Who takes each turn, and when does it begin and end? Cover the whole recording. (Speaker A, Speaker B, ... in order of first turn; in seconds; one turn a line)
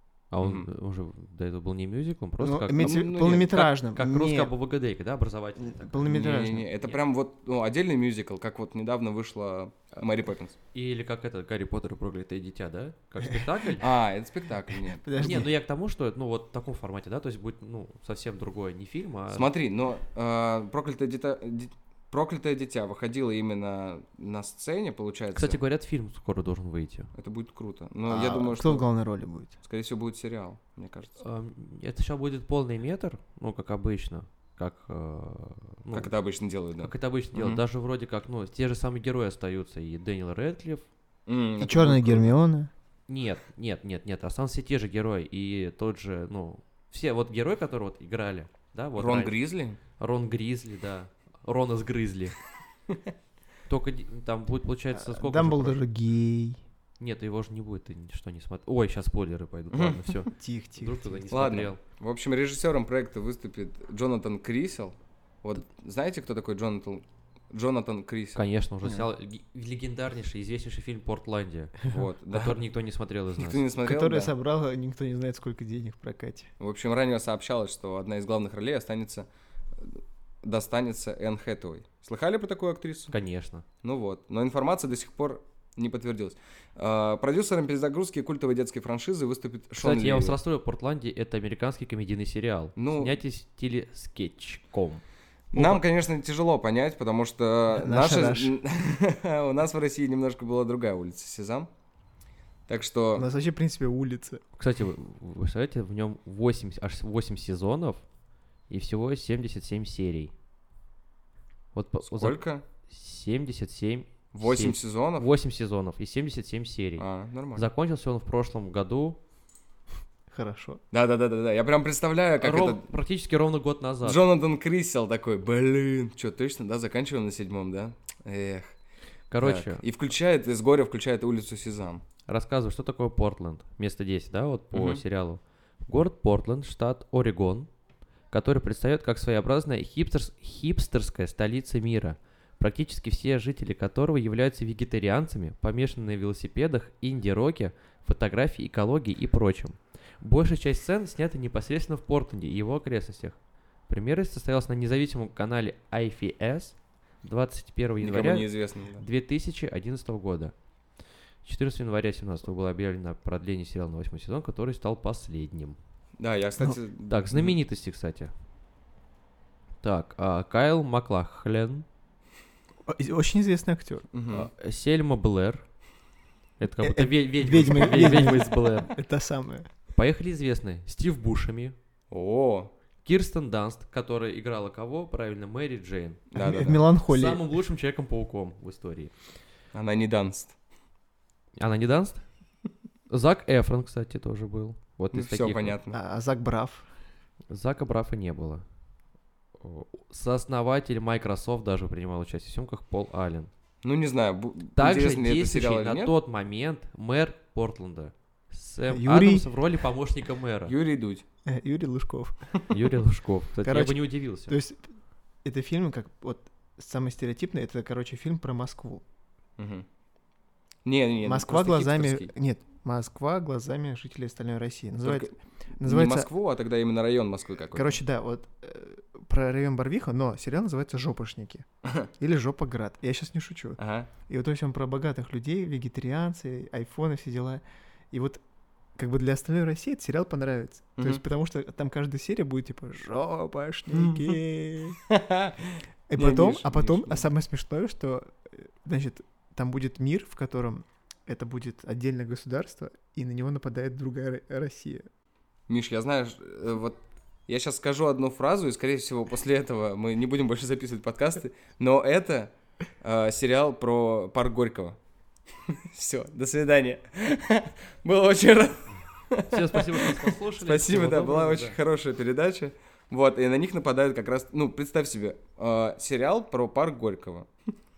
Speaker A: 0.3-7.0
Speaker B: 0.4-0.7
Speaker C: 2.4-4.5
Speaker B: 2.8-3.6
Speaker C: 5.6-6.7
Speaker B: 6.0-10.5
Speaker A: 10.7-13.9
Speaker B: 13.8-15.4
Speaker C: 14.9-15.5
Speaker A: 15.2-19.5
Speaker B: 19.3-25.6
Speaker A: 25.3-27.1
Speaker B: 27.1-28.9
Speaker C: 28.1-29.5
Speaker B: 29.6-31.2
Speaker A: 31.2-36.1
Speaker B: 35.9-37.6
Speaker A: 36.8-40.9
Speaker B: 41.3-42.3
Speaker C: 41.6-42.7
Speaker A: 43.1-49.3
Speaker B: 49.0-49.8
Speaker A: 50.0-52.4
Speaker A: 53.7-55.8
Speaker C: 54.9-56.6
Speaker A: 57.0-61.8
Speaker B: 59.7-60.2
Speaker C: 60.4-61.4
Speaker B: 61.3-68.4
Speaker A: 68.3-73.6
Speaker B: 71.9-72.6
Speaker B: 73.4-74.3
Speaker C: 73.8-76.5
Speaker B: 76.6-79.2
Speaker B: 79.8-83.1
Speaker A: 83.1-83.6
Speaker B: 83.8-90.4
Speaker A: 89.8-95.0
Speaker B: 92.8-93.2
Speaker B: 95.5-101.7
Speaker C: 97.7-98.5
Speaker B: 102.7-103.3
Speaker C: 103.1-104.4
Speaker A: 104.6-108.0
Speaker A: 108.7-110.3
Speaker A: 111.7-119.2
Speaker B: 112.1-112.6
Speaker B: 114.3-115.3
Speaker B: 117.0-117.7
Speaker C: 120.3-120.8
Speaker B: 120.9-122.8
Speaker A: 122.4-124.2
Speaker B: 124.0-128.7
Speaker A: 129.3-129.8
Speaker B: 129.4-132.0
Speaker A: 132.3-137.7
Speaker B: 134.7-135.0
Speaker A: 138.3-160.5
Speaker B: 158.0-159.0
Speaker A: 161.4-165.8
Speaker B: 166.2-167.6
Speaker A: 167.1-168.3
Speaker A: 169.8-171.8
Speaker C: 172.8-174.1
Speaker B: 174.1-174.5
Speaker A: 174.3-175.7
Speaker A: 176.6-178.9
Speaker C: 176.8-179.7
Speaker A: 179.9-181.8
Speaker B: 182.1-182.7
Speaker A: 183.0-186.2
Speaker B: 186.3-186.8
Speaker C: 186.3-187.4
Speaker A: 187.1-189.1
Speaker B: 189.7-190.5
Speaker A: 191.6-192.2
Speaker A: 193.1-195.7
Speaker B: 195.1-196.0
Speaker C: 195.9-196.9
Speaker A: 197.5-198.6
Speaker A: 199.6-203.5
Speaker B: 203.8-206.1
Speaker A: 204.8-210.7
Speaker C: 208.9-209.5
Speaker B: 210.7-211.2
Speaker C: 211.4-212.5
Speaker A: 212.7-214.6
Speaker C: 213.6-214.9
Speaker C: 215.4-219.0
Speaker B: 219.6-219.8
Speaker B: 220.8-222.3
Speaker C: 221.2-226.3
Speaker B: 225.0-228.0
Speaker C: 227.7-231.6
Speaker B: 231.8-232.1
Speaker C: 232.2-238.4
Speaker B: 233.8-234.1
Speaker C: 238.9-245.0
Speaker B: 241.0-241.2
Speaker B: 243.9-244.4
Speaker B: 245.1-247.2
Speaker C: 246.1-255.1
Speaker B: 255.7-265.0
Speaker B: 265.7-277.5
Speaker A: 269.5-271.8